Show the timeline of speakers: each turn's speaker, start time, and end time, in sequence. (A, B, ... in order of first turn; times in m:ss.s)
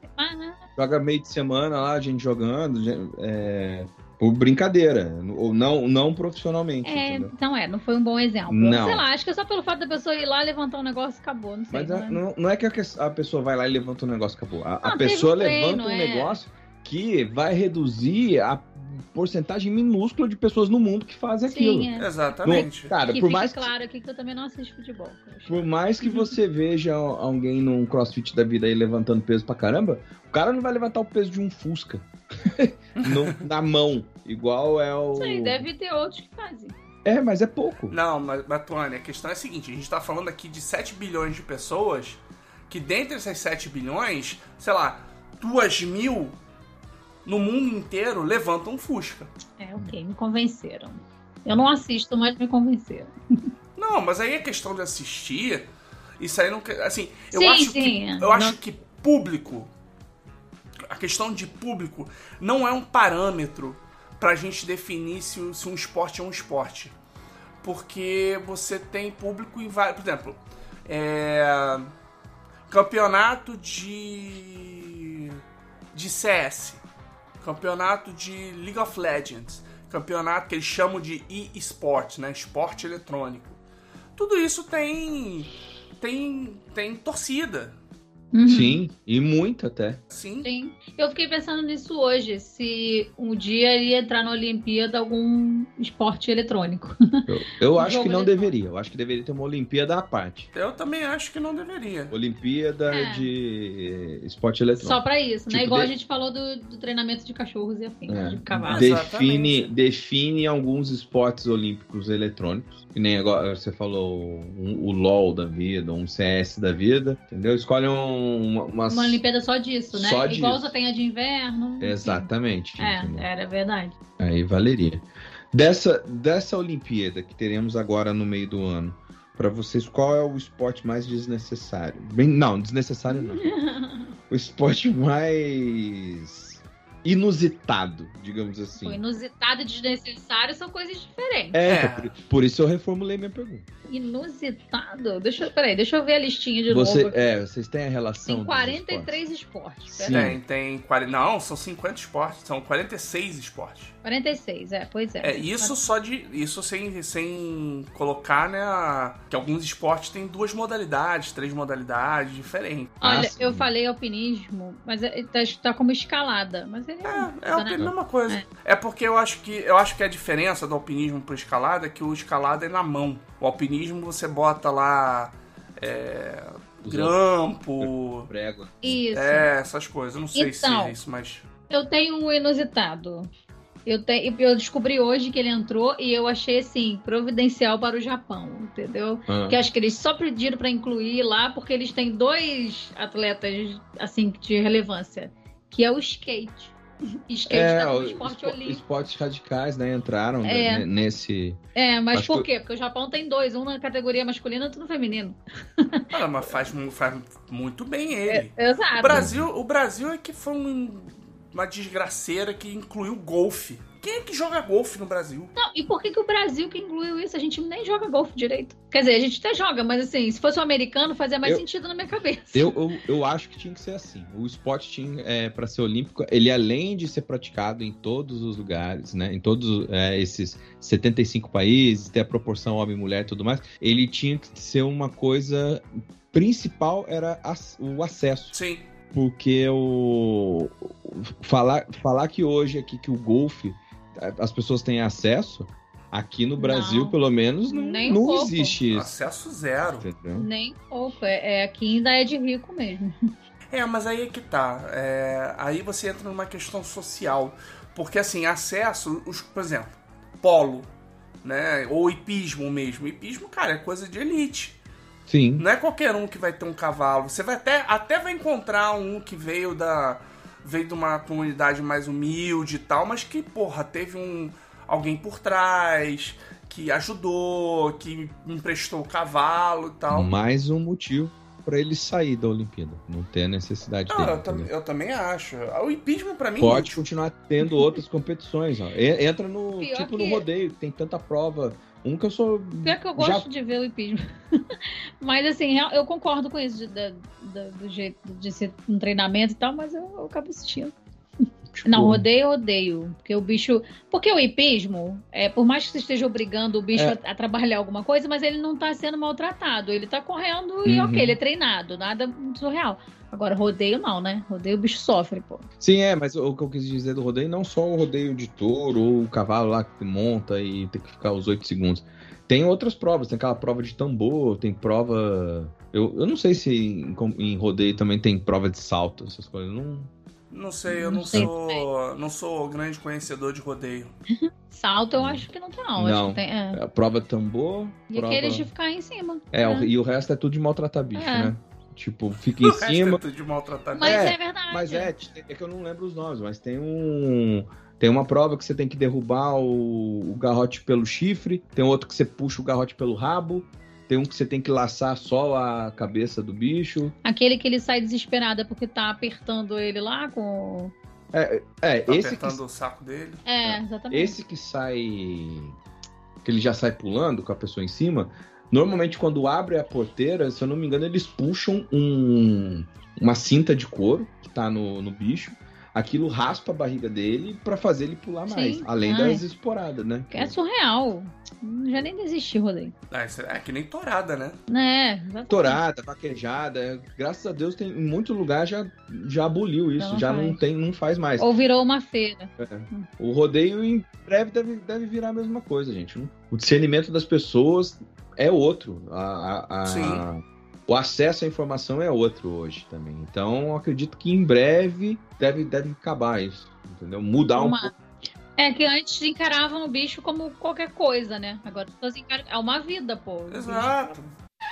0:00.1-0:00.6 A
0:00.8-0:07.3 B
0:06.8-0:12.2 A
0:08.5-0:09.0 B
0:11.7-0:21.9 B
0:14.8-0:16.4 A
0:21.5-0:26.3 A
0:22.0-0:22.9 C
0:22.4-0:23.7 B
0:25.5-0:35.6 B
0:33.0-0:33.4 C
0:35.2-0:36.7 A
0:37.0-0:38.0 B
0:37.9-0:46.4 C
0:47.2-0:49.3 C
0:49.6-0:53.1 A
0:53.8-0:55.6 C
0:56.2-0:59.7 C
0:57.3-0:58.6 A
1:00.9-1:06.9 C
1:07.6-1:11.9 C
1:12.7-1:15.4 C
1:15.9-1:16.8 C
1:17.4-1:23.6 C
1:24.2-1:27.7 C
1:28.3-1:28.8 A
1:28.4-1:30.0 B
1:30.1-1:30.5 C
1:30.4-1:38.5 A
1:37.3-1:40.5 B
1:40.5-1:42.1 C
1:42.1-1:45.9 B
1:42.9-1:43.3 A
1:44.8-1:48.9 A
1:48.1-1:59.2 B
1:48.7-1:49.7 C
1:58.9-2:03.9 A
1:59.9-2:00.7 B
2:01.8-2:03.3 B
2:04.2-2:13.5 B
2:13.1-2:14.1 A
2:14.3-2:19.0 B
2:18.8-2:21.6 A
2:21.5-2:23.7 B
2:21.6-2:22.1 C
2:23.9-2:27.2 A
2:26.7-2:29.2 B
2:28.2-2:30.3 A
2:29.9-2:30.4 B
2:30.1-2:33.9 C
2:34.0-2:35.8 A
2:35.2-2:43.0 C
2:43.0-2:48.4 A
2:43.0-2:43.7 B
2:47.0-2:58.3 C
2:56.8-2:57.2 B
2:57.8-2:59.0 B
2:58.8-2:59.5 A
2:59.1-3:01.4 C
3:00.3-3:00.9 A
3:01.7-3:03.3 A
3:03.8-3:16.7 A
3:09.3-3:09.6 B
3:17.3-3:18.8 A
3:17.5-3:21.6 B
3:20.4-3:20.8 A
3:21.8-3:26.1 A
3:22.1-3:22.5 B
3:26.1-3:35.5 C
3:28.3-3:29.2 A
3:29.0-3:29.5 B
3:35.6-3:42.8 A
3:42.5-3:58.6 B
3:58.5-3:58.9 C
3:59.1-4:09.1 B
4:06.6-4:08.8 A
4:08.9-4:10.1 C
4:10.0-4:10.5 B
4:10.4-4:13.3 A
4:13.7-4:20.9 C
4:21.4-4:24.8 C
4:25.3-4:25.6 B
4:25.6-4:40.3 C
4:40.1-4:44.7 B
4:44.1-4:47.0 C
4:46.6-4:53.5 B
4:49.8-4:50.4 A
4:52.8-5:00.9 A
5:01.7-5:02.2 B
5:01.8-5:15.6 A
5:10.8-5:11.4 B
5:15.8-5:30.1 B
5:30.5-5:34.1 C
5:30.9-5:31.8 A
5:34.7-5:36.8 A
5:35.2-5:35.4 B
5:36.0-5:38.7 B
5:38.1-5:39.9 A
5:39.5-5:43.2 B
5:41.1-5:41.5 A
5:42.6-5:44.3 C
5:43.9-5:45.1 A
5:44.0-5:57.1 B
5:57.2-6:00.9 A
6:01.3-6:02.6 B
6:02.1-6:03.4 C
6:03.4-6:04.4 A
6:03.6-6:05.8 B
6:06.4-6:20.5 B
6:18.5-6:19.4 A
6:20.3-6:22.9 A
6:23.1-6:24.6 C
6:24.7-6:25.8 A
6:25.5-6:31.5 B
6:30.0-6:30.6 A
6:31.4-6:33.1 A
6:32.6-6:47.9 B
6:39.8-6:40.2 C
6:47.5-6:47.9 A
6:48.6-6:53.9 A
6:53.5-6:54.3 C